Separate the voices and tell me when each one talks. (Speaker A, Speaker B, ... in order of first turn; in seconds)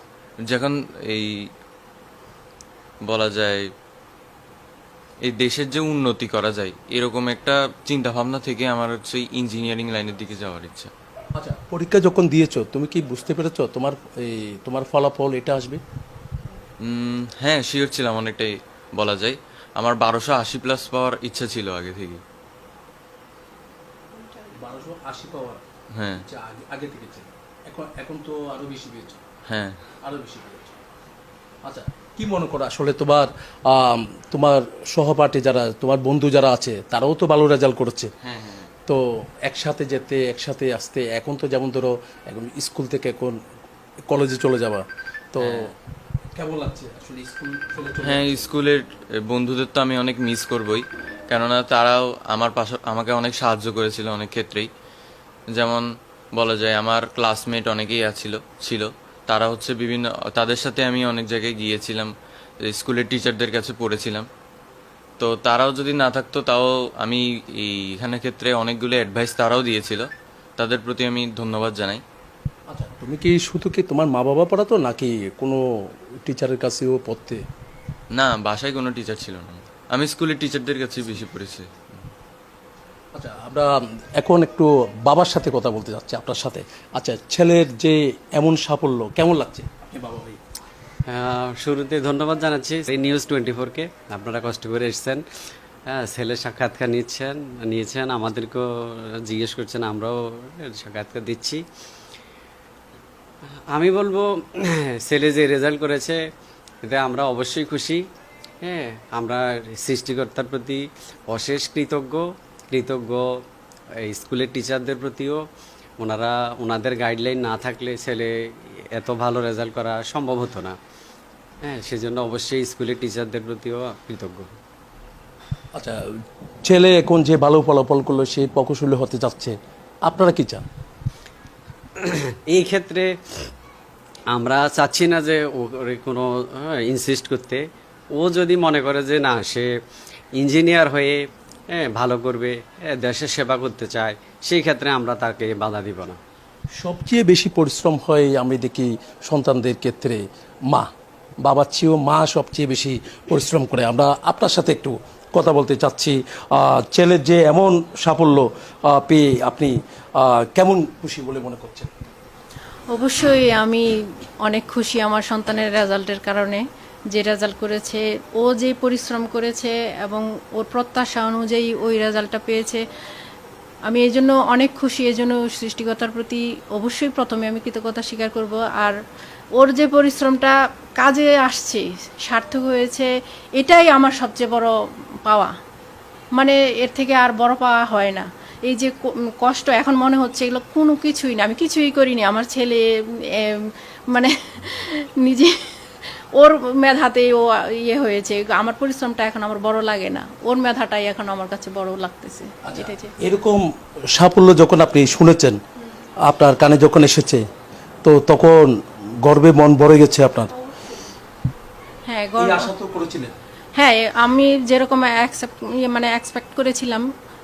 Speaker A: 0.5-1.5, 3.0-3.7, 5.2-10.9, 16.8-22.2, 25.9-26.2, 29.5-29.8, 38.2-38.7, 45.4-45.7, 48.0-54.7, 55.5-62.1, 62.6-64.3, 65.2-72.0, 78.2-81.8
Speaker B: 11.4-15.8, 24.6-25.6, 26.2-29.2, 30.0-30.8, 31.6-38.1, 38.9-43.4, 44.1-45.7, 46.4-48.4, 72.7-75.6, 76.2-77.4, 83.2-90.4, 126.6-130.6, 146.8-150.9, 151.4-161.9, 202.6-203.6, 204.1-205.6, 206.2-207.4, 208.0-210.5, 212.4-213.3
Speaker C: 91.1-95.2, 95.9-98.7, 99.2-101.6, 103.7-106.2, 106.8-108.0, 108.6-113.3, 114.0-115.4, 116.0-118.3, 119.0-120.8, 121.6-124.5, 132.0-133.1, 134.3-137.6, 138.2-139.7, 140.4-141.2, 141.7-146.2
Speaker D: 162.9-163.9, 164.4-172.8, 173.9-178.9, 179.6-184.7, 185.2-185.5, 186.4-203.2, 210.7-211.1, 212.1-212.7, 213.8-217.1